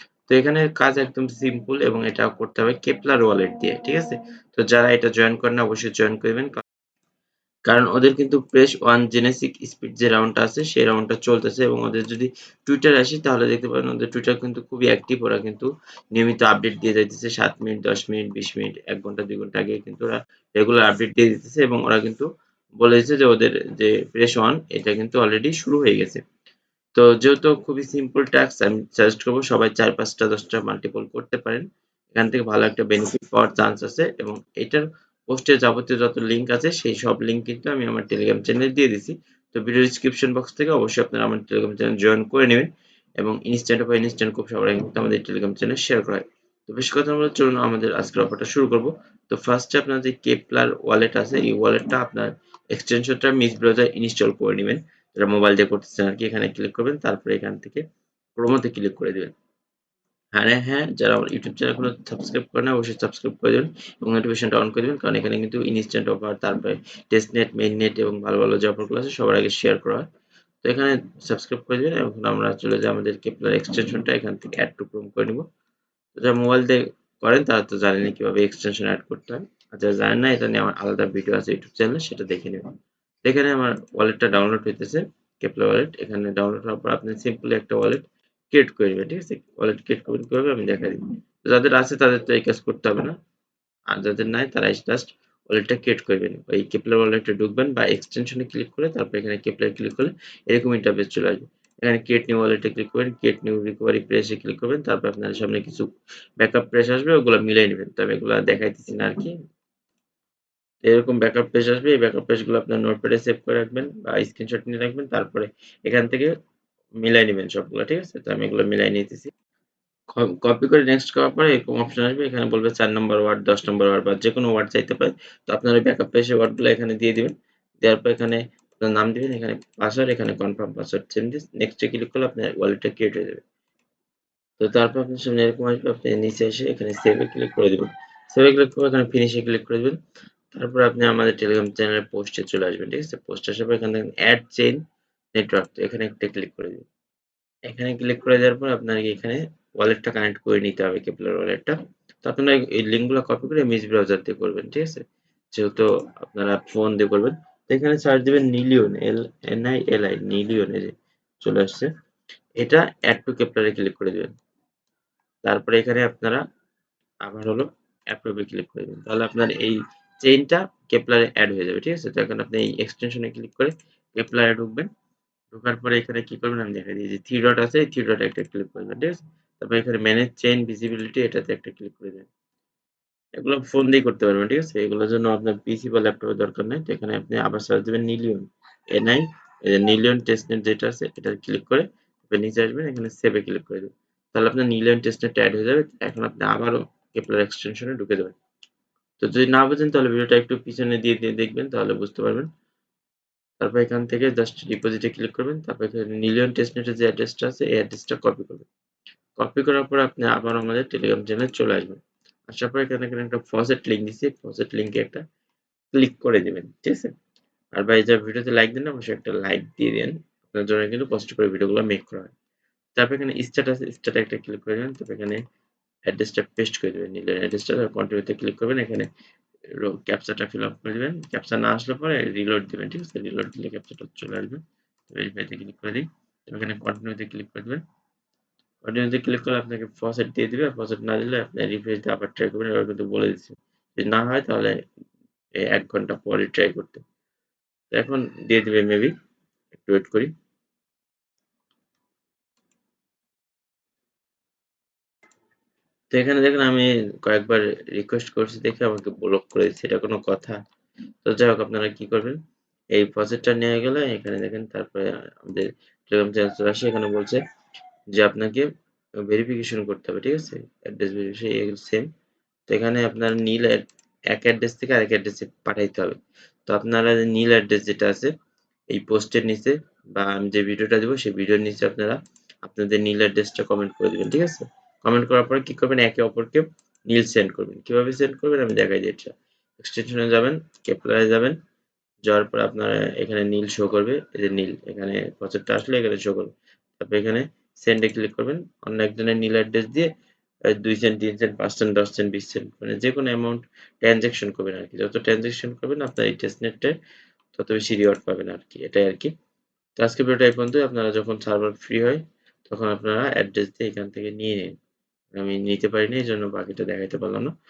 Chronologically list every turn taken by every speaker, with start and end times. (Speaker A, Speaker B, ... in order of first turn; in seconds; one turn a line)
Speaker A: 0.3-6.6
Speaker A: 7.7-22.3
Speaker A: 22.8-26.2
Speaker A: 26.9-57.8
Speaker A: 58.4-59.3
Speaker A: 60.3-70.1
Speaker A: 70.6-75.4
Speaker A: 76.1-82.7
Speaker A: 83.2-93.1
Speaker A: 93.9-109.4
Speaker A: 110.8-116.3
Speaker A: 117.0-119.3
Speaker A: 120.1-133.4
Speaker A: 134.6-140.0
Speaker A: 140.5-144.8
Speaker A: 145.3-146.8
Speaker A: 147.7-161.9
Speaker A: 162.6-164.3
Speaker A: 165.4-166.4
Speaker A: 167.2-174.9
Speaker A: 175.5-182.3
Speaker A: 183.4-198.3
Speaker A: 199.2-202.5
Speaker A: 203.6-208.7
Speaker A: 209.4-215.2
Speaker A: 215.9-217.1
Speaker A: 217.8-222.3
Speaker A: 222.9-225.4
Speaker A: 226.1-229.1
Speaker A: 229.8-237.8
Speaker A: 238.8-244.8
Speaker A: 245.7-247.0
Speaker A: 247.9-249.1
Speaker A: 249.8-250.3
Speaker A: 256.1-260.6
Speaker A: 261.2-262.4
Speaker A: 262.9-267.4
Speaker A: 268.1-268.7
Speaker A: 269.2-272.1
Speaker A: 272.7-278.3
Speaker A: 278.9-291.6
Speaker A: 292.2-300.1
Speaker A: 300.8-306.9
Speaker A: 307.6-309.3
Speaker A: 309.9-314.7
Speaker A: 315.3-317.5